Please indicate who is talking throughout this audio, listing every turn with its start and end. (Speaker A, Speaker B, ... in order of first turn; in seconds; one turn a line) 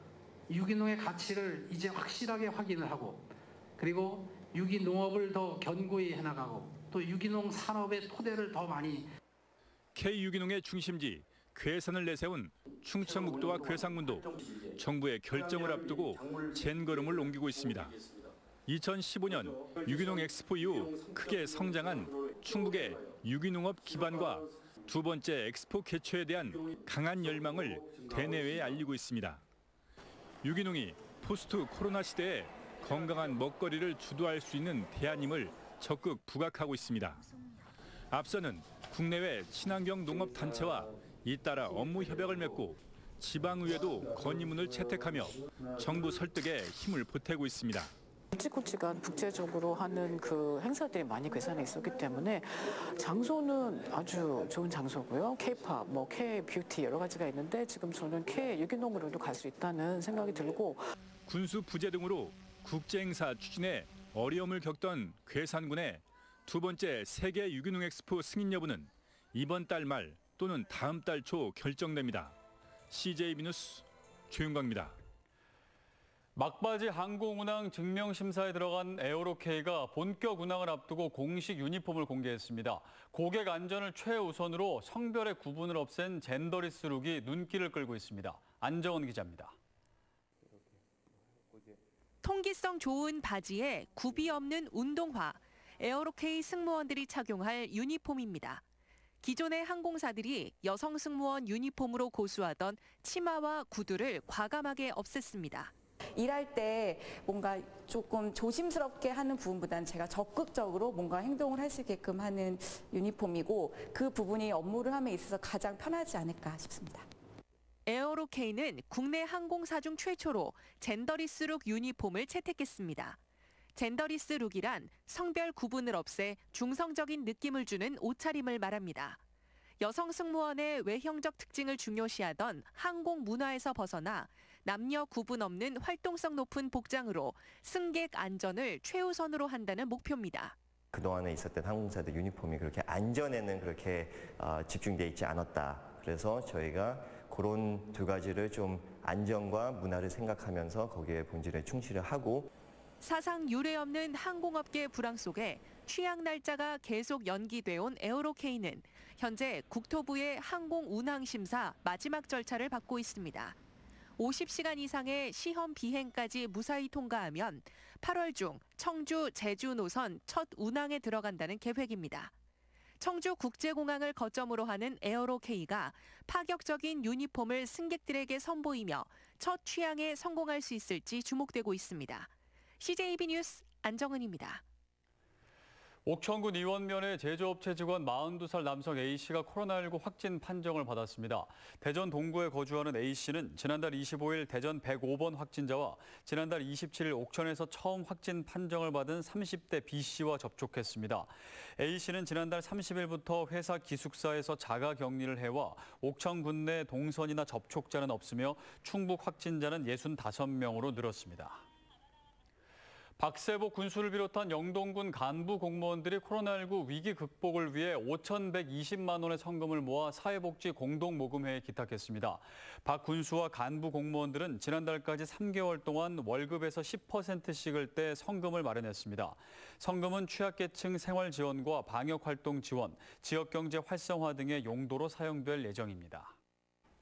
Speaker A: 0.5-9.1
Speaker B: 9.9-18.0
Speaker B: 18.7-29.4
Speaker B: 30.4-37.2
Speaker B: 38.1-47.9
Speaker C: 48.3-60.9
Speaker B: 61.3-72.3
Speaker B: 72.9-75.0
Speaker D: 76.3-89.5
Speaker E: 92.2-98.6
Speaker E: 99.2-105.7
Speaker F: 106.2-117.1
Speaker E: 117.9-123.2
Speaker E: 123.8-129.2
Speaker E: 129.8-140.6
Speaker G: 140.9-152.5
Speaker E: 153.0-163.6
Speaker E: 164.2-172.3
Speaker E: 173.0-184.6
Speaker D: 186.1-211.6
Speaker D: 213.2-236.3